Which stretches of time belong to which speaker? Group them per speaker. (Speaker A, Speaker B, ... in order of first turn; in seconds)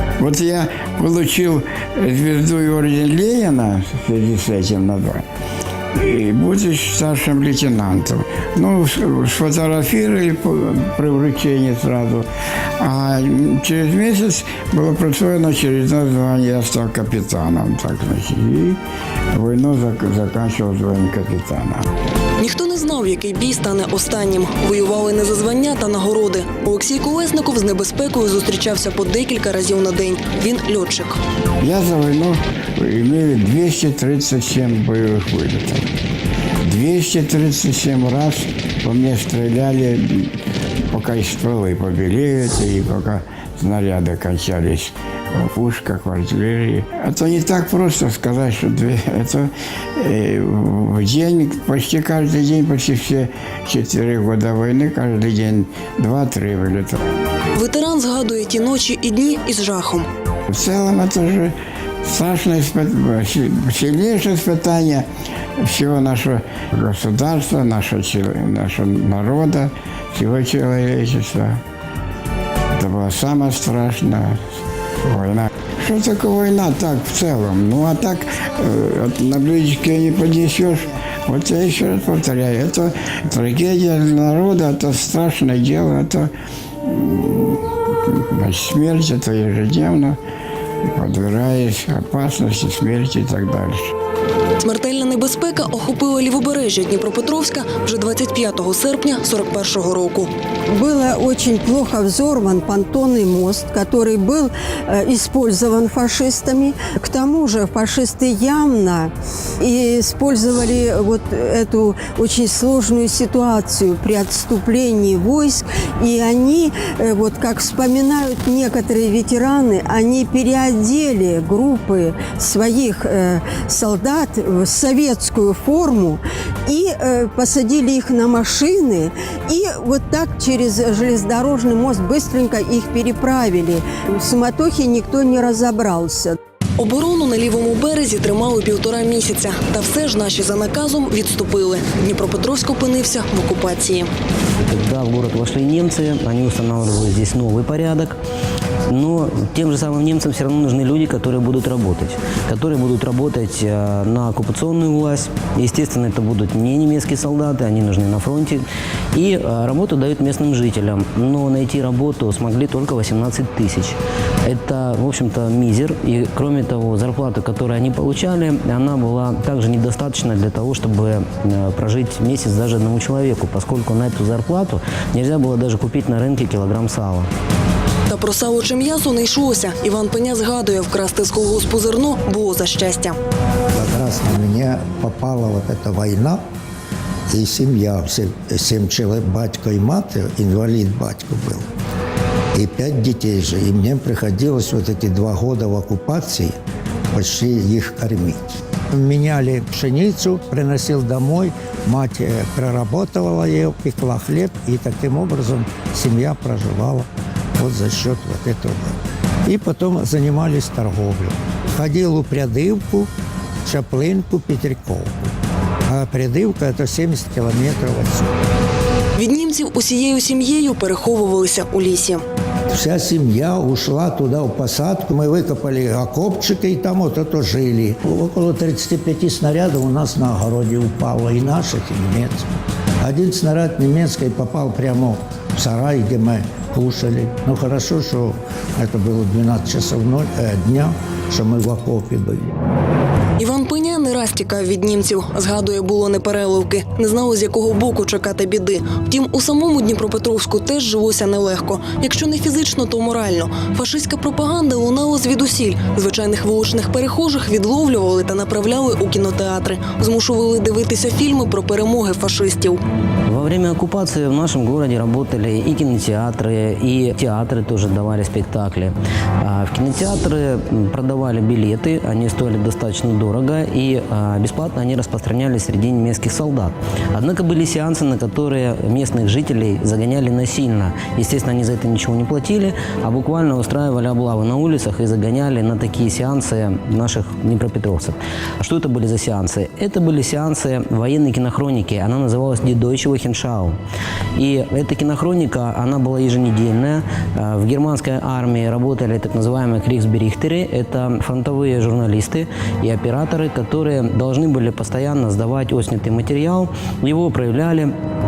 Speaker A: 0.2-5.2, 5.9-12.3, 12.8-18.8, 19.3-21.9, 31.6-35.9, 36.6-40.3, 40.9-57.0, 60.5-65.0, 65.6-71.6, 72.8-74.4, 75.0-86.3, 86.8-90.2, 90.9-93.9
Speaker B: 22.4-31.2, 57.5-60.1, 94.6-100.3, 136.8-144.1, 178.1-183.2, 219.2-222.2, 243.4-262.8
Speaker C: 100.7-136.4
Speaker D: 144.6-148.2, 148.9-177.3, 263.3-293.8, 294.3-307.9
Speaker E: 183.7-186.4, 187.3-191.7, 192.5-196.6, 197.1-213.1, 213.6-215.3, 215.9-218.3, 222.7-242.5